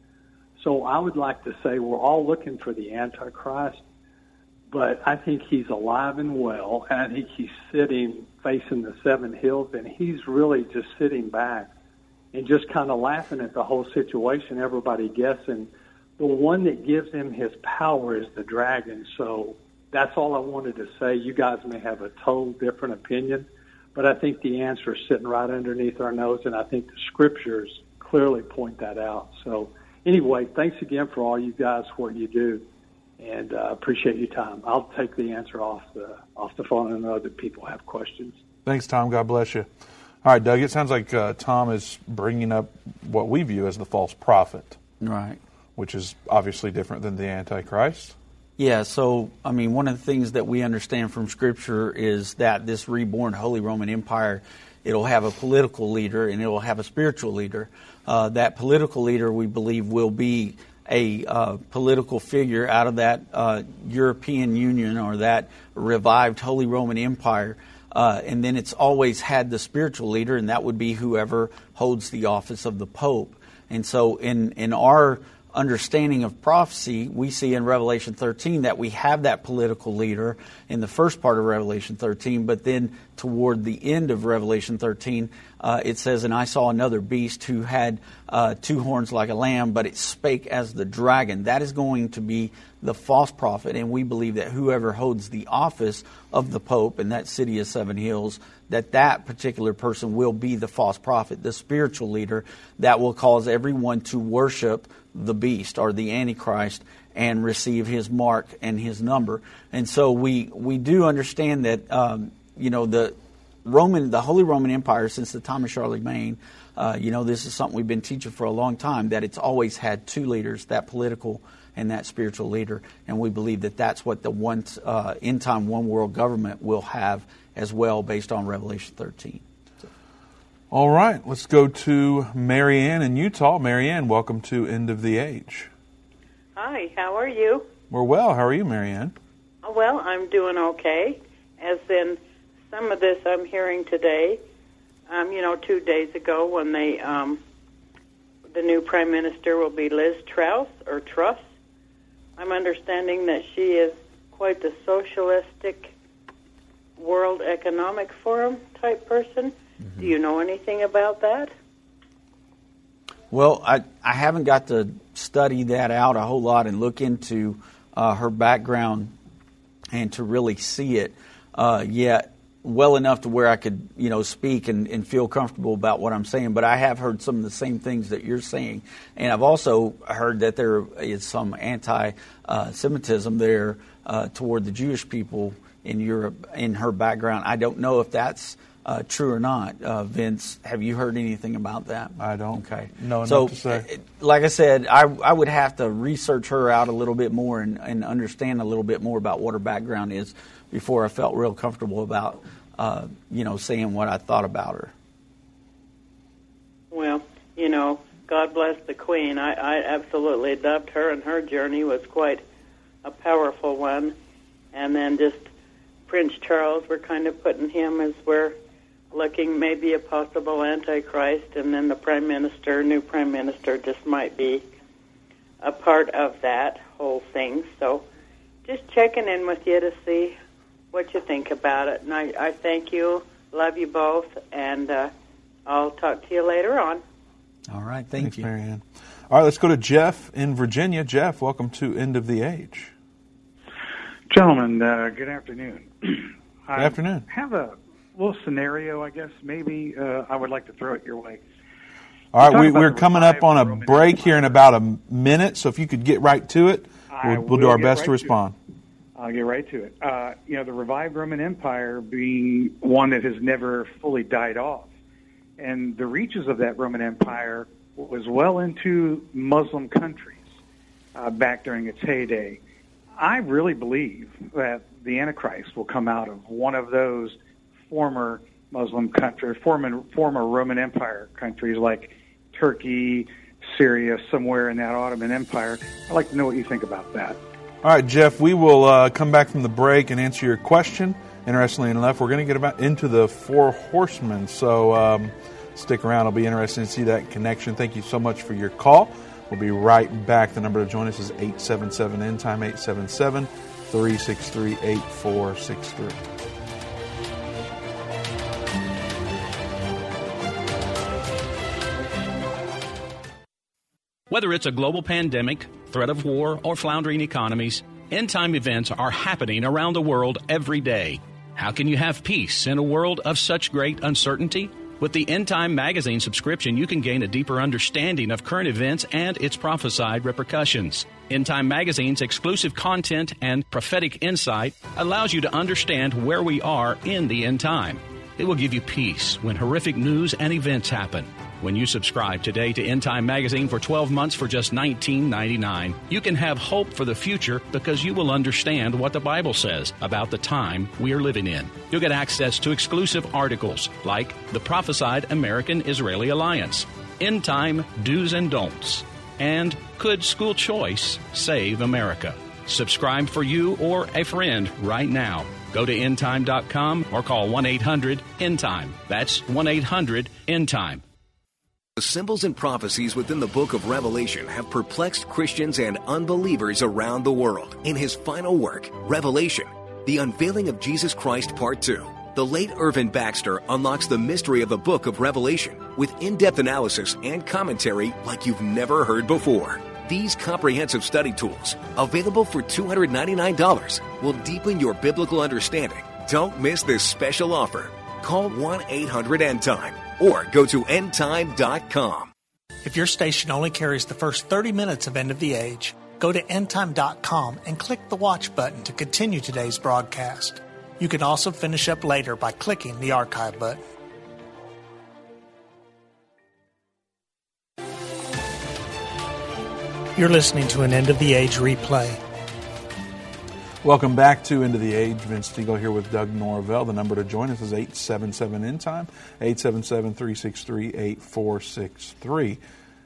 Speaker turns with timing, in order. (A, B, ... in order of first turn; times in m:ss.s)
0:00.6-0:03.8 A
0:04.7-0:11.7 A
0:12.3-0:32.6 A
0:33.2-0:38.4 A
0:38.6-0:39.7 B
0:40.2-0:44.8 B
0:45.0-0:45.4 C
0:45.8-0:48.1 B
0:48.6-2:09.4 C
2:10.7-2:15.7 B
2:16.6-2:17.7 D
2:17.9-2:19.2 B
2:19.6-2:24.4 D
2:25.1-2:27.4 D
2:28.5-2:31.4 D
2:32.4-2:35.9 D
2:37.0-2:41.5 D
2:43.3-2:49.1 C
2:49.9-3:24.9 C
3:12.2-3:13.9 B
3:26.9-3:32.4 D
3:33.0-3:34.1 D
3:34.7-3:35.5 D
3:36.1-3:38.5 D
3:39.1-3:44.6 D
3:45.6-3:48.0 D
3:48.6-3:50.4 D
3:50.9-3:55.1 D
3:55.6-3:57.0 D
3:57.7-3:58.5 C
3:58.2-4:02.9 B
4:04.3-4:11.4 E
4:06.8-4:07.3 B
4:12.3-4:18.5 B
4:12.4-4:14.6 E
4:17.1-4:18.3 E
4:19.2-4:24.9 E
4:25.6-4:30.4 E
4:31.1-4:32.6 E
4:33.2-4:37.4 E
4:37.9-4:47.4 E
4:47.8-5:06.2 B
5:14.3-6:11.0 F
6:12.0-6:42.3 G
6:42.8-6:53.8 H
7:00.1-7:02.2 H
7:03.8-7:12.6 B